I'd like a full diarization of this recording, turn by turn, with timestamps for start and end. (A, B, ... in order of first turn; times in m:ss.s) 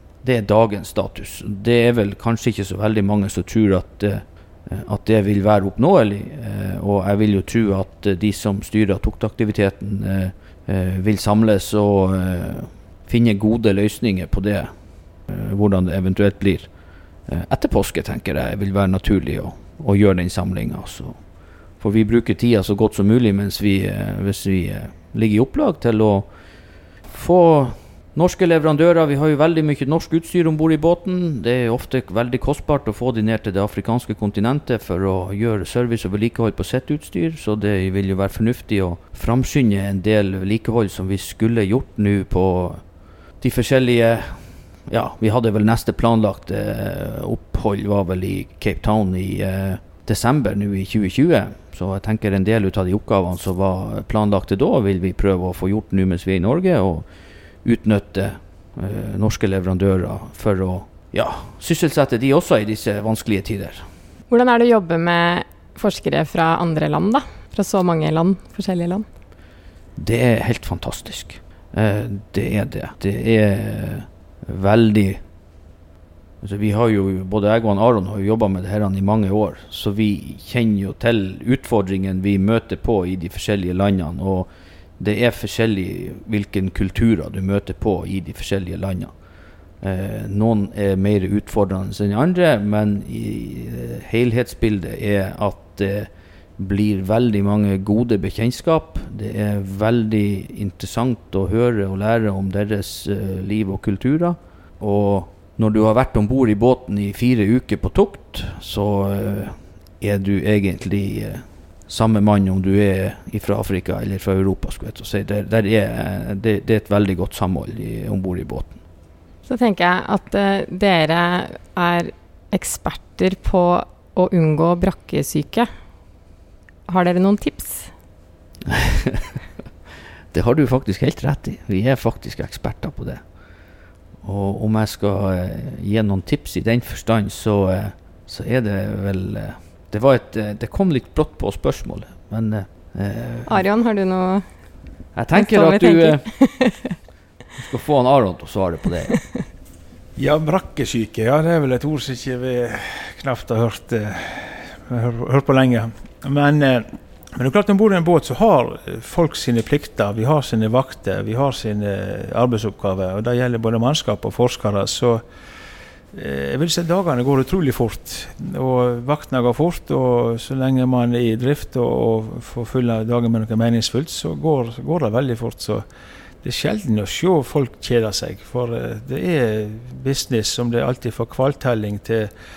0:00.2-0:57.1 A
0:57.6-1:03.9 A
1:04.3-1:09.0 B
1:10.0-1:15.2 A
1:16.4-1:29.1 A
1:29.8-1:58.8 A
1:59.5-2:05.7 B
2:06.9-2:07.9 B
2:08.7-2:09.3 A
2:10.3-2:13.2 A
2:14.2-2:23.6 A
2:23.5-2:24.5 B
2:25.2-2:26.2 A
2:25.3-2:27.0 B
2:27.6-2:29.2 A
2:30.2-2:45.2 C
2:46.1-2:55.8 C
2:56.4-3:02.3 C